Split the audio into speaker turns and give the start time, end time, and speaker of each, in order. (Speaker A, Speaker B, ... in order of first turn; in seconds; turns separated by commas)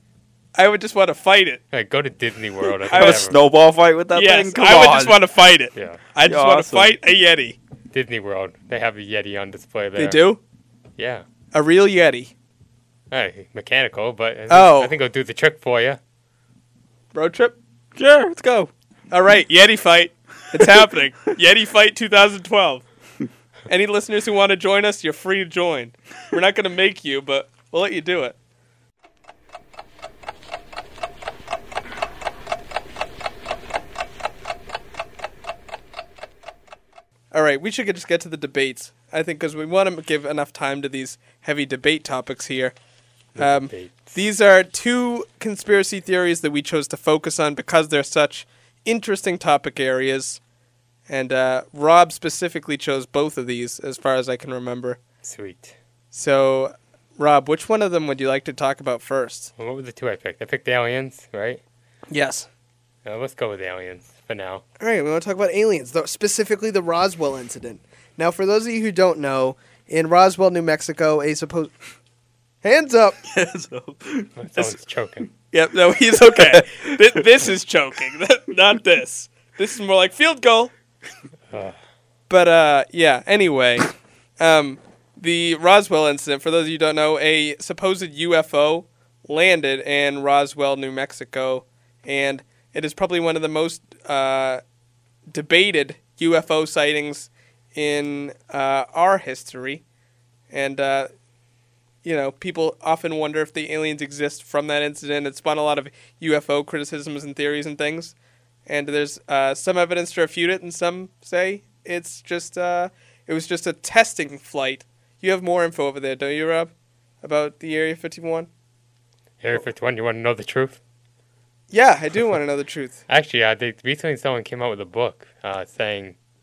Speaker A: 0.5-1.6, Speaker B: 1.7-3.4, Speaker A: 2.8-3.2, Speaker C: 2.9-5.2, Speaker A: 4.1-7.6, Speaker B: 5.7-6.0, Speaker C: 6.2-7.0, Speaker B: 7.9-10.2, Speaker A: 9.9-10.4, Speaker B: 11.0-11.2, Speaker A: 11.5-12.3, Speaker B: 13.1-16.0, Speaker A: 14.5-14.9, Speaker A: 17.1-17.6, Speaker C: 17.9-18.7, Speaker A: 19.1-22.8, Speaker A: 23.7-28.4, Speaker A: 37.3-42.7, Speaker B: 43.3-44.1, Speaker A: 43.4-50.4, Speaker A: 51.1-55.0, Speaker B: 55.2-55.7, Speaker A: 56.1-59.5, Speaker B: 59.6-61.6, Speaker A: 62.1-62.5, Speaker B: 63.0-64.6, Speaker A: 64.8-71.7, Speaker A: 72.6-73.2, Speaker C: 73.2-74.3, Speaker B: 74.4-75.3, Speaker A: 75.4-80.7, Speaker C: 76.3-77.2, Speaker B: 81.5-81.8, Speaker A: 82.3-94.6, Speaker A: 95.3-99.8, Speaker A: 100.5-101.1, Speaker A: 102.0-108.1, Speaker A: 108.7-118.5, Speaker B: 119.4-120.8, Speaker A: 121.7-123.0, Speaker B: 123.1-126.2